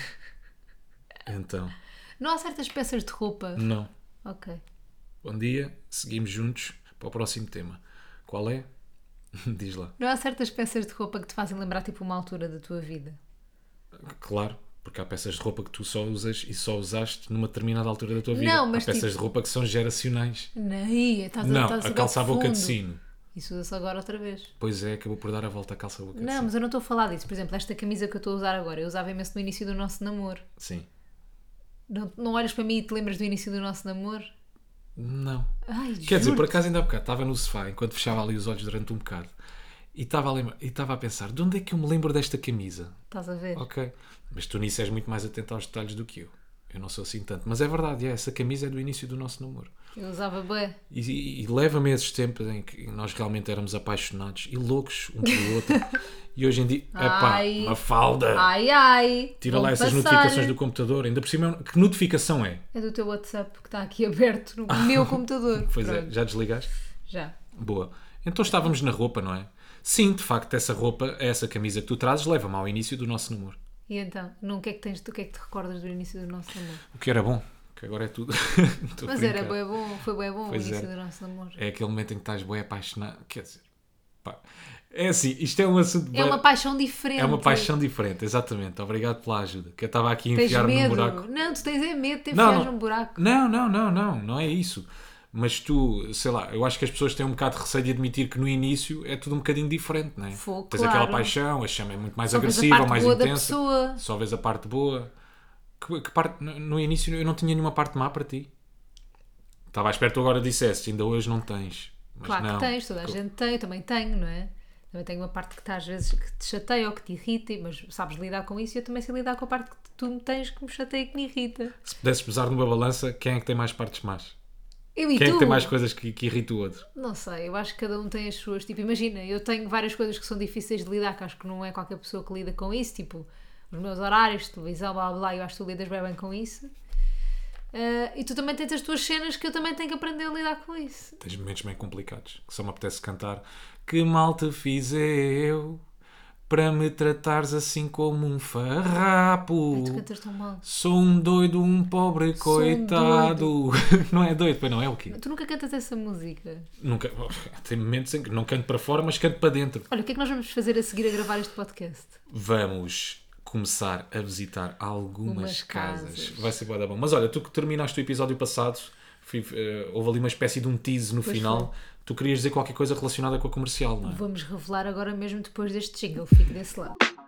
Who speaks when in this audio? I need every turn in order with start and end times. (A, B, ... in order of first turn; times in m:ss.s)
0:01.2-0:01.7 A
0:02.2-0:03.7 B
0:03.6-0:03.9 A
0:04.2-0:04.6 B
0:05.2-0:08.7 A
0:09.3-0:09.9 A
0:10.0-0:13.2 B
0:14.0-0:20.5 A
0:18.3-0:19.1 B
0:20.6-0:22.8 B
0:21.4-0:23.0 A
0:23.3-0:24.5 B
0:24.6-0:26.5 A
0:26.1-0:30.4 B
0:30.6-0:30.9 A
0:31.9-0:34.3 B
0:35.0-0:35.5 A
0:35.6-0:36.6 B
0:36.0-0:39.3 A
0:39.9-0:42.9 A
0:43.1-0:43.6 B
0:43.6-0:49.7 A
0:50.0-0:50.8 B
0:50.9-0:58.5 A
0:55.2-0:56.0 B
0:56.9-0:57.8 B
0:58.3-1:00.6 B
0:59.4-1:02.6 A
1:02.7-1:06.1 B
1:04.7-1:06.7 A
1:07.1-1:07.3 B
1:07.5-1:13.6 A
1:13.9-1:16.8 B
1:16.9-1:19.6 A
1:19.0-1:21.6 B
1:20.5-1:20.9 A
1:21.6-1:23.6 A
1:24.2-1:26.4 A
1:26.1-1:27.7 B
1:27.2-1:31.2 A
1:30.3-1:33.2 B
1:32.3-1:45.1 A
1:40.3-1:41.3 B
1:42.3-1:44.0 B
1:45.8-1:48.5 A
1:49.7-1:53.2 A
1:52.2-2:01.8 B
2:01.8-2:04.4 A
2:05.0-2:05.7 B
2:05.1-2:06.8 A
2:06.9-2:16.7 B
2:17.7-2:21.2 B
2:21.2-2:25.8 A
2:26.5-2:30.0 A
2:29.7-2:30.6 B
2:30.6-2:35.2 A
2:32.4-2:33.5 B
2:35.1-2:36.7 B
2:36.8-2:39.9 A
2:39.9-2:42.2 B
2:42.3-2:54.2 A
2:45.2-2:46.5 B
2:51.2-2:51.7 B
2:54.0-2:57.0 B